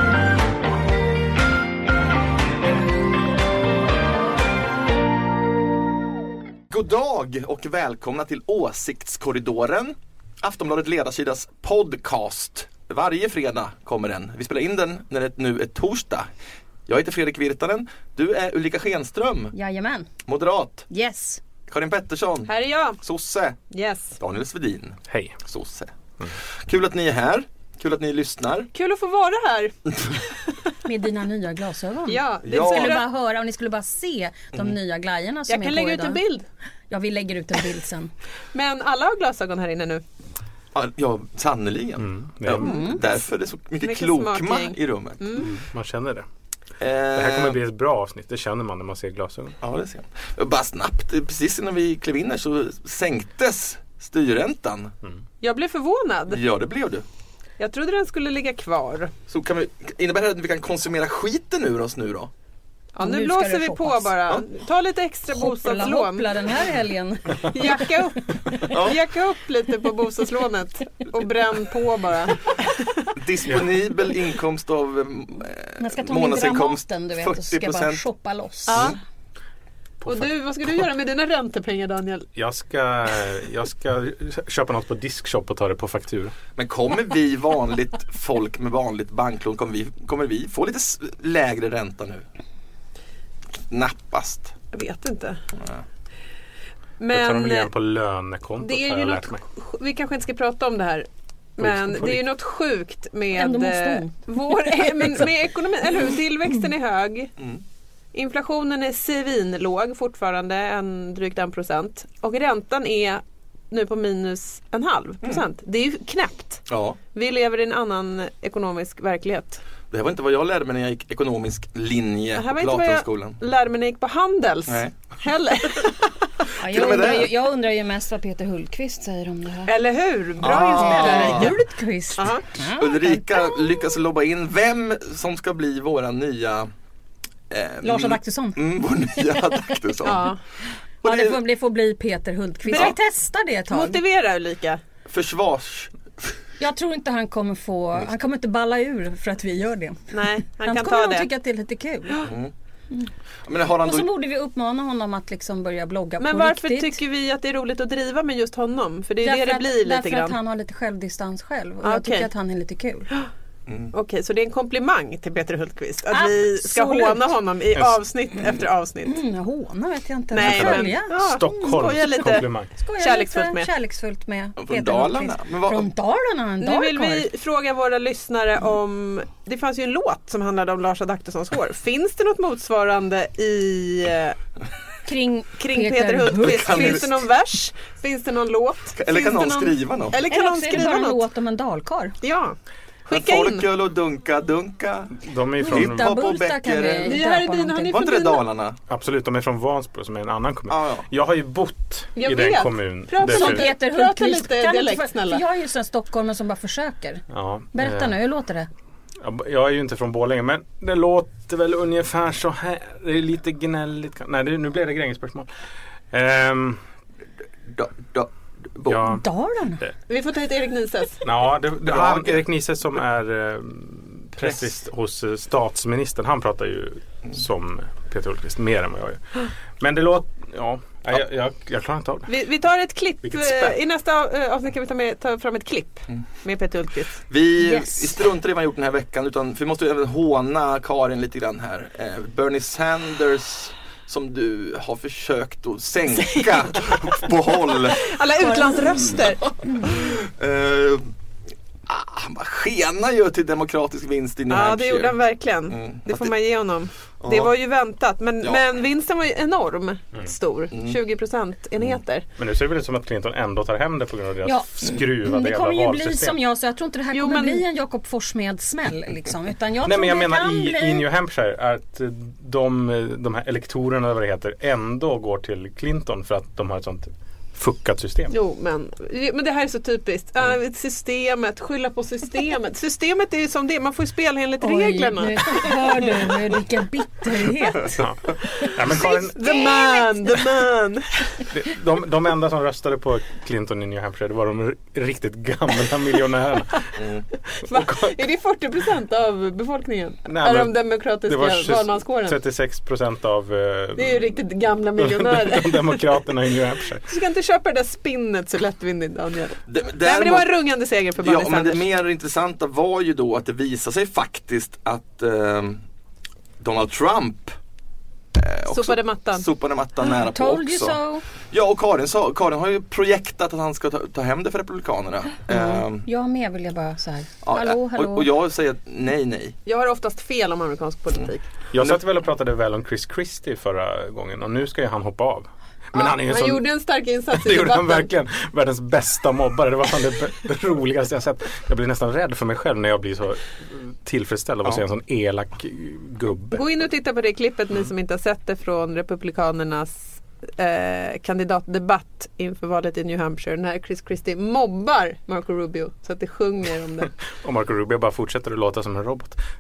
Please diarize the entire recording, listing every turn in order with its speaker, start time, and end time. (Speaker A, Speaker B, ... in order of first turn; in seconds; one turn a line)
Speaker A: 6.7-16.3
Speaker A: 16.9-19.5
Speaker B: 19.5-20.1
Speaker A: 20.3-20.9
Speaker B: 20.9-21.4
Speaker A: 21.7-23.6
Speaker C: 22.5-23.0
Speaker C: 23.7-24.2
Speaker A: 24.2-26.0
Speaker D: 25.1-25.4
Speaker A: 26.7-28.7
Speaker C: 28.7-29.8
Speaker B: 30.9-36.2
Speaker C: 32.1-33.0
Speaker A: 32.5-33.0
Speaker C: 35.5-36.5
Speaker B: 36.9-38.1
Speaker C: 38.5-40.0
Speaker A: 40.8-45.5
Speaker D: 42.0-42.7
Speaker B: 42.5-43.0
Speaker C: 43.8-45.5
Speaker D: 45.4-46.3
Speaker A: 46.8-47.6
Speaker D: 47.1-49.6
Speaker A: 49.6-54.9
Speaker C: 55.4-56.4
Speaker A: 56.3-57.0
Speaker C: 57.6-59.1
Speaker A: 59.3-62.3
Speaker C: 62.9-66.3
Speaker B: 63.0-64.2
Speaker B: 65.3-67.9
Speaker C: 67.4-73.1
Speaker A: 68.7-69.0
Speaker A: 73.2-78.0
Speaker B: 75.8-78.9
Speaker A: 78.7-79.0
Speaker C: 78.7-79.0
Speaker D: 80.0-80.3
Speaker C: 80.1-82.3
Speaker D: 82.3-86.3
Speaker A: 86.5-92.3
Speaker A: 93.7-94.6
Speaker C: 94.7-95.4
Speaker C: 97.0-97.7
Speaker D: 97.1-99.4
Speaker C: 98.6-107.3
Speaker D: 101.6-102.3
Speaker B: 103.3-105.1
Speaker C: 108.1-119.6
Speaker A: 116.7-117.0
Speaker A: 119.9-123.4
Speaker C: 122.4-126.0
Speaker A: 124.7-124.9
Speaker B: 126.6-129.7
Speaker A: 126.7-127.3
Speaker C: 129.7-131.6
Speaker A: 130.4-131.5
Speaker B: 130.8-133.8
Speaker C: 132.2-132.4
Speaker A: 132.5-136.7
Speaker A: 137.5-140.3
Speaker B: 137.8-139.8
Speaker C: 140.0-140.4
Speaker B: 141.0-144.0
Speaker A: 141.0-141.4
Speaker C: 142.7-143.0
Speaker C: 143.7-144.8
Speaker A: 145.1-145.9
Speaker B: 146.6-152.3
Speaker C: 150.1-151.3
Speaker A: 152.3-152.5
Speaker A: 153.4-154.1
Speaker B: 153.8-157.0
Speaker C: 156.2-160.4
Speaker B: 159.2-163.1
Speaker C: 161.8-162.3
Speaker A: 163.7-163.9
Speaker C: 163.9-169.2
Speaker B: 166.1-167.3
Speaker B: 169.0-171.6
Speaker C: 170.3-173.7
Speaker D: 170.4-172.7
Speaker B: 172.8-177.3
Speaker A: 174.6-175.9
Speaker C: 176.6-184.4
Speaker B: 185.1-187.1
Speaker C: 185.6-191.2
Speaker A: 186.4-187.1
Speaker A: 188.9-190.2
Speaker B: 190.3-192.2
Speaker C: 192.2-192.6
Speaker C: 193.1-193.7
Speaker A: 193.1-197.2
Speaker D: 195.2-196.3
Speaker B: 195.6-198.1
Speaker C: 197.1-198.4
Speaker A: 197.9-198.8
Speaker D: 198.9-203.7
Speaker A: 200.7-201.1
Speaker C: 202.2-205.4
Speaker B: 203.2-208.7
Speaker D: 207.3-208.1
Speaker D: 209.2-215.5
Speaker D: 216.1-216.8
Speaker A: 217.7-219.1
Speaker D: 218.9-219.2
Speaker B: 219.1-219.8
Speaker C: 220.1-221.2
Speaker D: 221.2-232.3
Speaker A: 221.8-222.4
Speaker A: 224.4-224.7
Speaker C: 232.3-237.2
Speaker D: 233.2-233.8
Speaker A: 237.3-248.1
Speaker B: 237.6-238.2
Speaker C: 248.0-249.6
Speaker A: 249.6-251.1
Speaker A: 251.9-255.2
Speaker C: 254.5-262.3
Speaker A: 255.7-256.3
Speaker A: 257.2-257.5
Speaker A: 260.7-261.0
Speaker D: 262.4-266.4
Speaker B: 264.4-271.1
Speaker C: 267.1-267.6
Speaker D: 269.9-278.3
Speaker C: 278.3-286.4
Speaker B: 284.6-288.0
Speaker D: 287.9-289.4
Speaker B: 288.6-290.5
Speaker C: 289.3-291.4
Speaker D: 291.5-297.0
Speaker C: 297.6-302.4
Speaker D: 297.7-298.2
Speaker D: 300.3-304.3
Speaker C: 304.0-306.1
Speaker D: 305.0-307.1
Speaker C: 307.1-311.9
Speaker A: 309.7-310.5
Speaker A: 311.2-315.8
Speaker A: 316.6-317.5
Speaker A: 318.4-321.0
Speaker C: 318.7-319.4
Speaker B: 320.0-321.2
Speaker A: 321.5-326.1
Speaker B: 325.5-328.3
Speaker A: 327.4-329.6
Speaker C: 329.7-331.5
Speaker A: 331.2-332.0
Speaker D: 331.7-336.7
Speaker C: 335.9-338.1
Speaker D: 337.3-346.6
Speaker C: 346.5-357.1
Speaker D: 357.4-359.4